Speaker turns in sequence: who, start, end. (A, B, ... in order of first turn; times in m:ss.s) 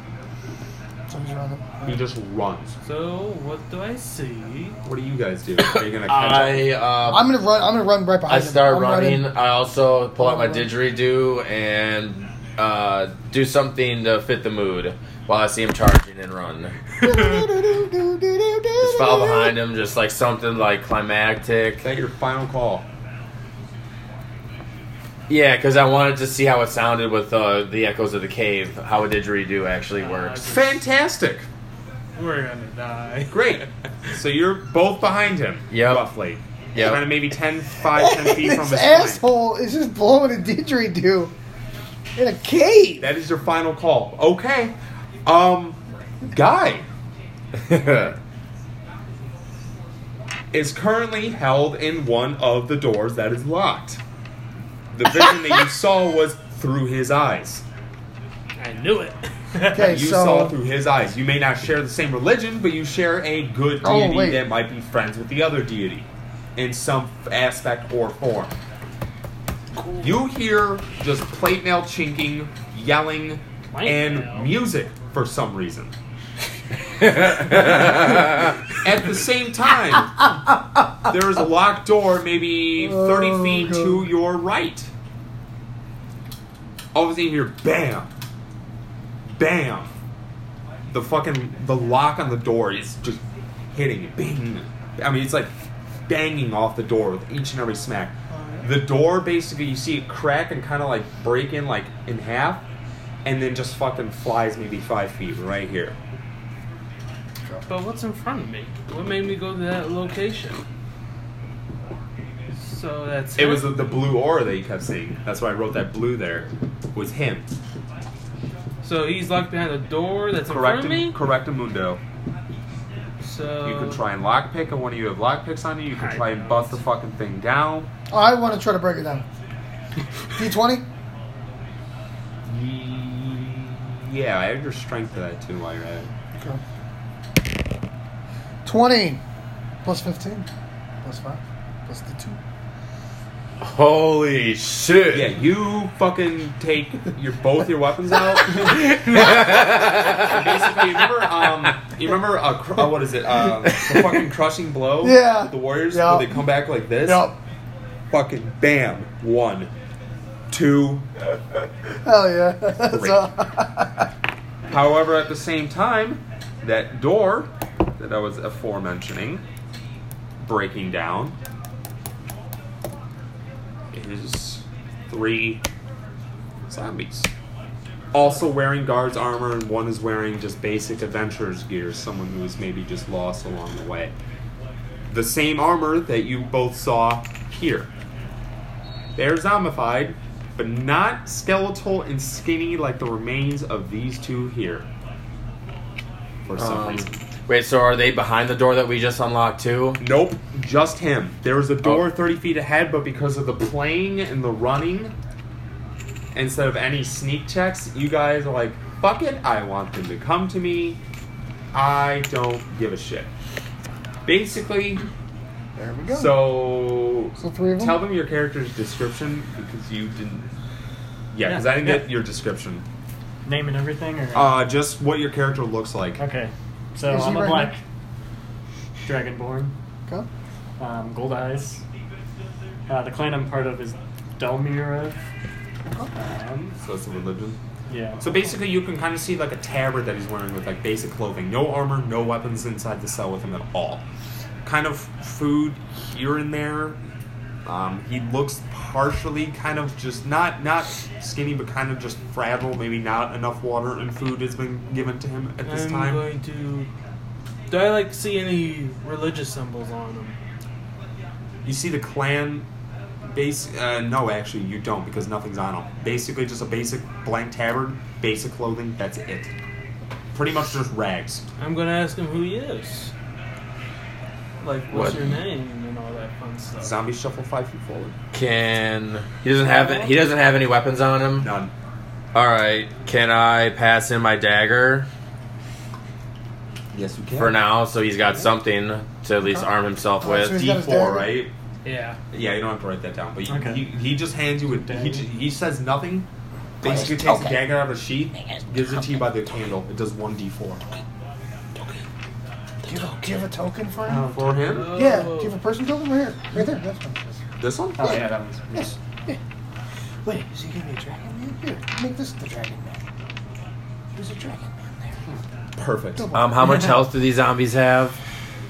0:01.1-0:02.0 A
0:01.8-0:02.7 B
0:02.8-0:04.8 C
0:04.8-0:06.8 B
0:05.7-0:07.3 D
0:07.1-0:09.3 A
0:08.3-0:16.8 D
0:10.2-0:10.7 A
0:17.0-0:19.5 A
0:18.8-0:21.8 D
0:21.8-0:22.8 B
0:25.3-0:30.4 D
0:29.9-0:30.8 C
0:30.4-0:31.5 B
0:32.2-0:33.7 C
0:33.3-0:39.2 B
0:35.7-0:36.0 D
0:36.7-0:37.0 D
0:37.9-0:41.3 A
0:42.2-0:43.1 A
0:43.0-0:46.9 B
0:47.6-0:48.1 D
0:50.5-0:54.0 B
0:54.9-0:57.6 B
0:58.6-0:59.9 C
0:59.6-1:00.6 A
0:59.8-1:08.6 B
1:03.8-1:04.4 A
1:10.0-1:15.9 B
1:13.7-1:14.5 C
1:17.8-1:18.1 B
1:18.7-1:20.3 B
1:21.1-1:24.9 B
1:22.8-1:24.0 A
1:26.9-1:28.1 B
1:29.2-1:29.9 B
1:30.9-1:33.2 B
1:33.7-1:42.6 B
1:38.3-1:38.6 A
1:43.2-1:46.0 B
1:47.7-1:50.6 C
1:52.6-1:53.8 C
1:53.4-1:57.5 B
1:58.8-2:01.2 C
2:00.5-2:02.0 B
2:03.2-2:04.0 C
2:03.6-2:07.9 B
2:06.0-2:06.8 C
2:08.1-2:09.3 A
2:10.4-2:10.8 A
2:12.4-2:16.1 B
2:16.3-2:16.6 A
2:18.6-2:19.2 A
2:19.8-2:20.5 A
2:21.0-2:22.4 A
2:23.6-2:25.3 D
2:25.1-2:37.3 B
2:28.6-2:30.3 D
2:35.0-2:36.4 A
2:37.0-2:37.4 A
2:38.1-2:39.7 B
2:40.5-2:41.0 B
2:42.0-2:44.1 A
2:42.8-2:43.3 B
2:44.7-2:49.4 B
2:50.4-2:51.4 B
2:53.9-2:55.6 B
2:56.7-2:57.3 B
2:58.1-3:04.1 B
3:05.1-3:07.9 B
3:09.2-3:14.9 B
3:16.4-3:17.2 B
3:16.6-3:20.0 D
3:20.0-3:25.1 B
3:26.3-3:31.0 B
3:31.7-3:33.3 B
3:34.2-3:35.1 B
3:35.8-3:36.5 A
3:36.1-3:40.5 B
3:37.4-3:38.1 A
3:41.3-3:42.8 B
3:41.4-3:42.1 E
3:43.4-3:44.6 E
3:44.3-3:46.2 B
3:46.2-3:47.8 E
3:47.0-3:47.8 A
3:49.0-3:49.7 E
3:50.8-3:51.8 E
3:52.9-3:55.2 E
3:56.2-3:56.7 E
3:56.5-3:57.6 B
3:57.9-3:58.4 E
3:58.2-4:04.0 B
4:04.6-4:07.0 B
4:07.6-4:16.2 B
4:15.6-4:16.9 C
4:17.7-4:20.4 C
4:21.6-4:22.6 B
4:23.2-4:29.5 B
4:30.3-4:31.4 B
4:31.6-4:33.1 C
4:34.6-4:37.0 C
4:34.9-4:35.4 D
4:36.8-4:38.2 B
4:38.3-4:41.5 D
4:39.7-4:40.1 A
4:41.4-4:41.7 B
4:42.3-4:45.1 D
4:46.9-4:47.6 B
4:47.4-4:50.6 D
4:50.2-4:51.4 A
4:50.5-4:51.5 B
4:51.8-4:52.2 C
4:52.3-4:56.3 B
4:53.4-4:53.9 E
4:54.7-4:55.3 E
4:56.8-5:00.8 B
5:02.8-5:04.3 A
5:04.0-5:04.9 E
5:04.2-5:05.0 B
5:04.6-5:05.6 C
5:04.9-5:07.2 A
5:07.6-5:08.3 B
5:08.0-5:08.9 E
5:08.0-5:09.4 A
5:10.2-5:13.0 A
5:14.2-5:15.2 A
5:15.8-5:16.3 B
5:16.1-5:16.8 A
5:16.3-5:18.2 D